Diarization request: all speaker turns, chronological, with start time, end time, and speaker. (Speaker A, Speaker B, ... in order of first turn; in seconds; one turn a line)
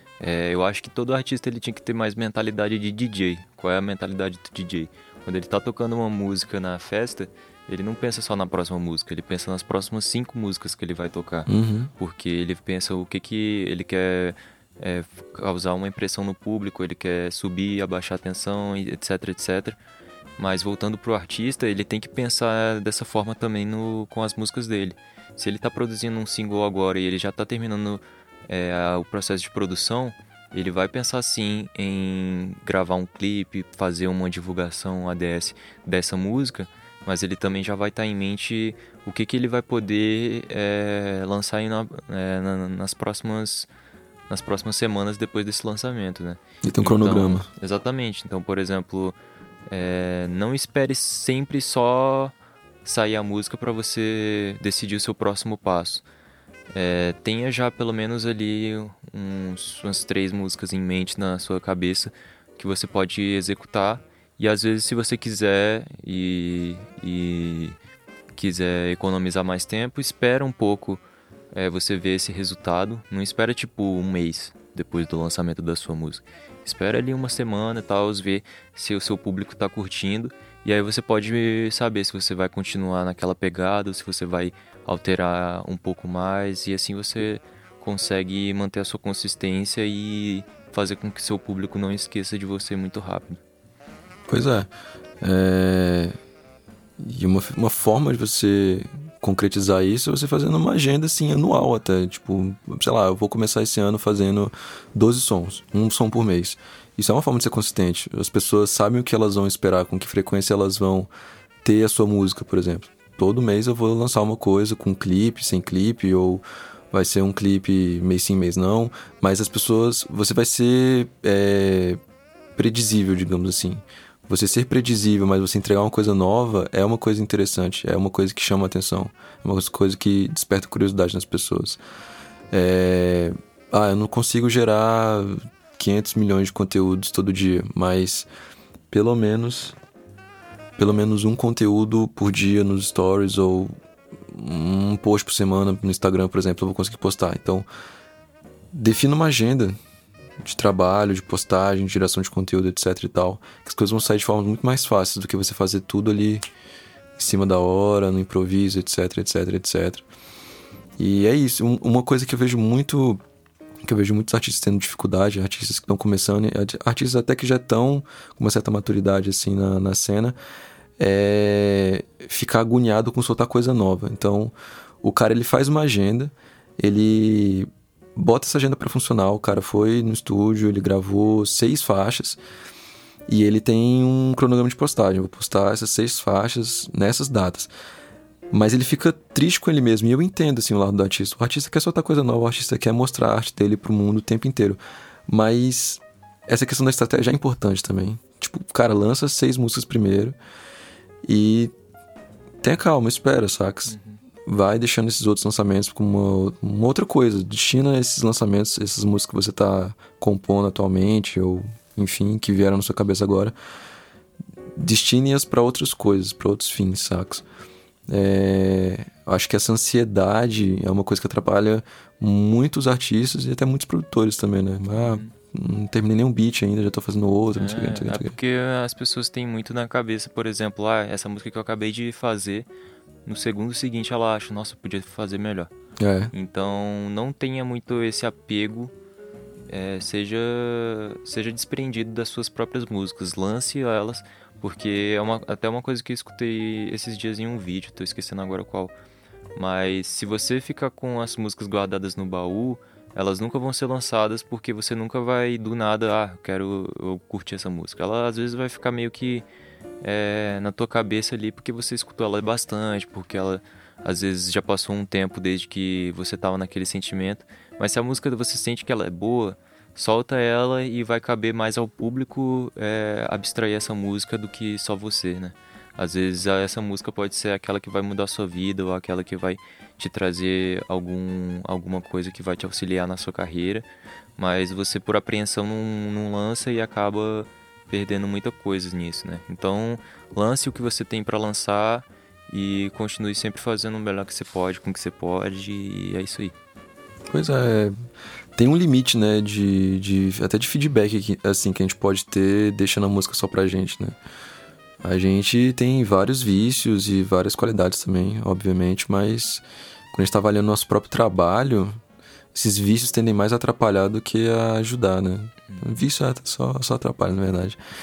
Speaker A: 0.2-19.8
Speaker B: 11.5-11.9
Speaker A: 20.4-43.7
Speaker A: 44.3-49.2
Speaker B: 46.6-47.5
Speaker A: 49.7-56.0
Speaker A: 56.7-67.8
Speaker A: 68.3-93.4
Speaker B: 94.3-94.7
Speaker B: 95.2-96.2
Speaker B: 97.0-111.1
Speaker B: 111.6-122.0
Speaker B: 122.6-131.8
Speaker B: 132.5-138.3
Speaker B: 138.9-139.8
Speaker B: 140.8-143.7
Speaker B: 144.3-147.7
Speaker B: 148.7-149.8
Speaker B: 150.4-156.4
Speaker B: 157.2-160.1
Speaker B: 161.0-163.2
Speaker B: 163.9-170.4
Speaker B: 171.0-182.4
Speaker B: 183.3-187.7
Speaker B: 188.5-200.3
Speaker B: 201.2-201.7
Speaker B: 202.6-213.5
Speaker A: 203.9-204.2
Speaker B: 214.8-217.4
Speaker B: 218.1-228.3
Speaker A: 225.0-225.3
Speaker A: 227.6-232.7
Speaker A: 233.2-235.7
Speaker B: 236.0-236.3
Speaker A: 236.3-238.9
Speaker A: 239.7-248.9
Speaker A: 249.6-259.5
Speaker A: 260.0-296.6
Speaker B: 297.3-297.9
Speaker B: 298.6-304.2
Speaker B: 305.0-312.0
Speaker B: 312.5-317.8